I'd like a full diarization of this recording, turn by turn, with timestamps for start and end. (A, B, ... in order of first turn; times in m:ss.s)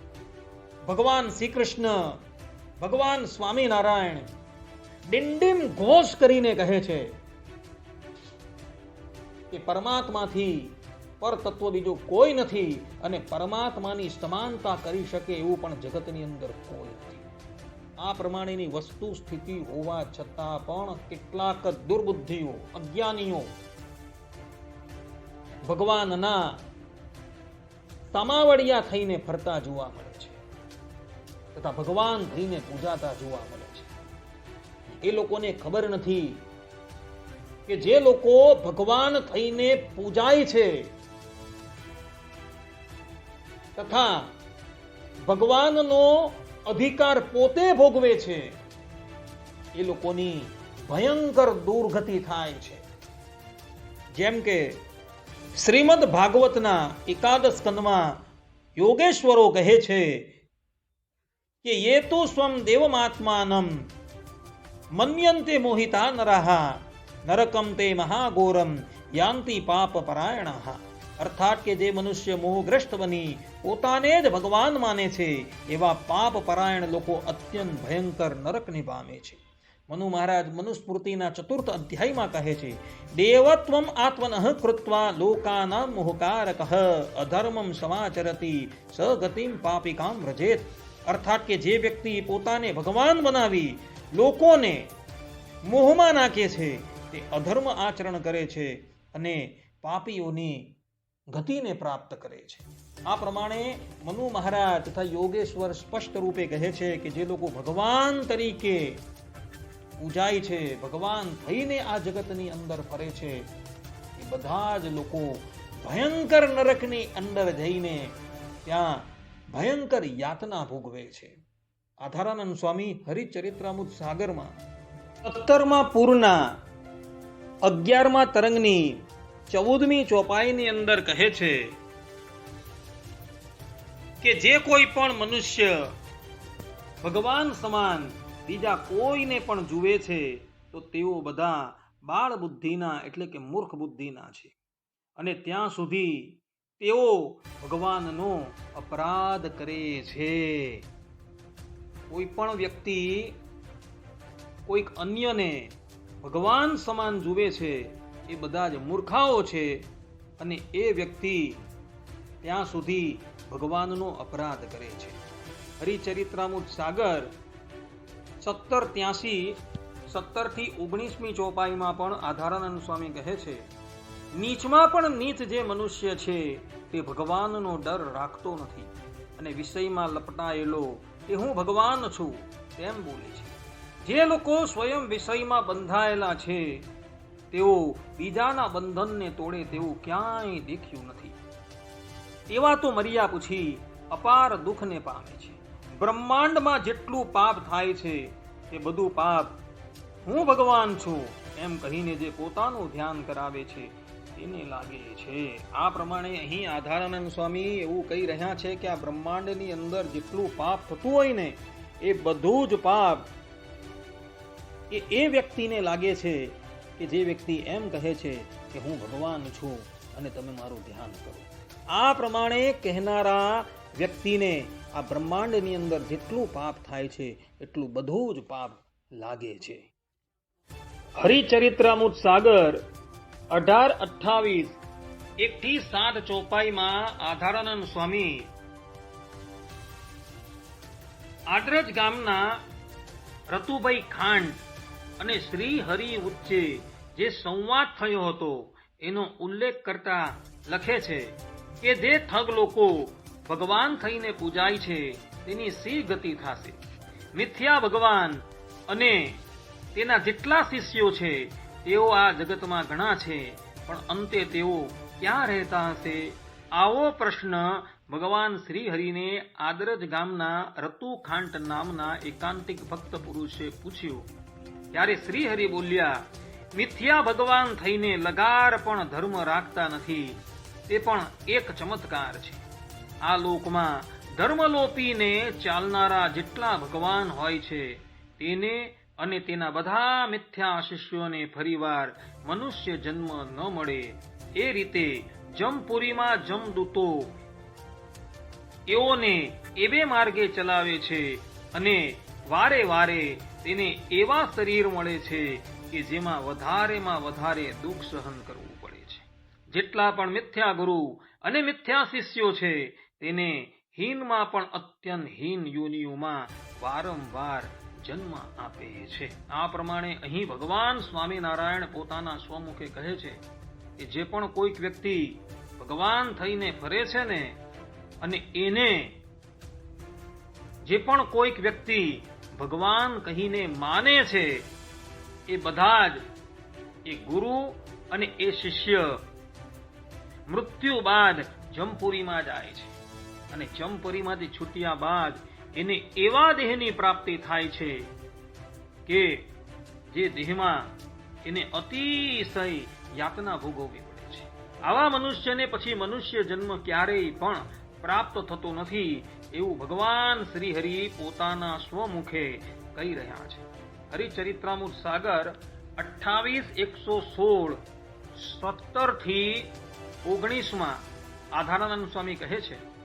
0:00.8-0:01.9 A
0:02.8-0:04.3 A
0:05.1-0:07.0 A
0:09.5-0:10.7 A
0:11.2-0:17.3 A
0:18.0-0:23.5 A
0:25.7-0:26.5 A
0:28.1-0:30.4 A
0:31.5-0:33.9 A
0:35.0-0:36.4 A
0:37.7-0:40.7 A
0:43.8-0:44.3 A
0:45.3-0:48.4 A
0:49.8-0:52.8 A
0:54.1-0:54.8 A
0:55.6-0:58.2 A
0:58.8-1:00.3 A
1:01.6-1:03.7 A
1:05.0-1:34.9 A
1:35.6-1:40.8 A
1:41.3-1:49.0 A
1:50.0-1:53.5 A
1:54.2-2:01.3 A
2:02.0-2:04.6 A
2:05.2-2:06.4 A
2:07.6-2:11.7 A
2:14.2-2:15.8 A
2:17.0-2:24.5 A
2:25.2-2:30.8 A
2:32.1-2:33.4 A
2:34.7-2:39.9 A
2:40.4-2:41.6 A
2:42.4-2:45.2 A
2:45.8-2:47.3 A
2:48.4-2:53.6 A
2:54.4-3:06.8 A
3:07.5-3:11.4 A
3:12.5-3:19.6 A
3:20.2-3:33.3 A
3:34.9-3:49.9 A
3:51.2-3:52.8 A
3:53.5-3:54.8 A
3:55.4-3:58.5 A
4:01.5-4:02.6 A
4:03.5-4:04.6 A
4:05.2-4:16.8 A
4:17.3-4:19.4 A
4:19.9-4:34.3 A
4:34.9-4:36.2 A
4:36.7-4:42.6 A
4:43.2-4:57.3 A
4:58.9-5:23.4 A
5:24.0-5:27.6 A
5:28.2-5:29.2 A
5:30.8-5:34.7 A
5:35.5-5:36.2 A
5:37.0-5:39.1 A
5:40.5-5:43.0 A
5:43.5-5:48.1 A
5:49.0-5:49.5 A
5:50.1-6:07.8 A
6:08.3-6:09.7 A
6:10.2-6:12.8 A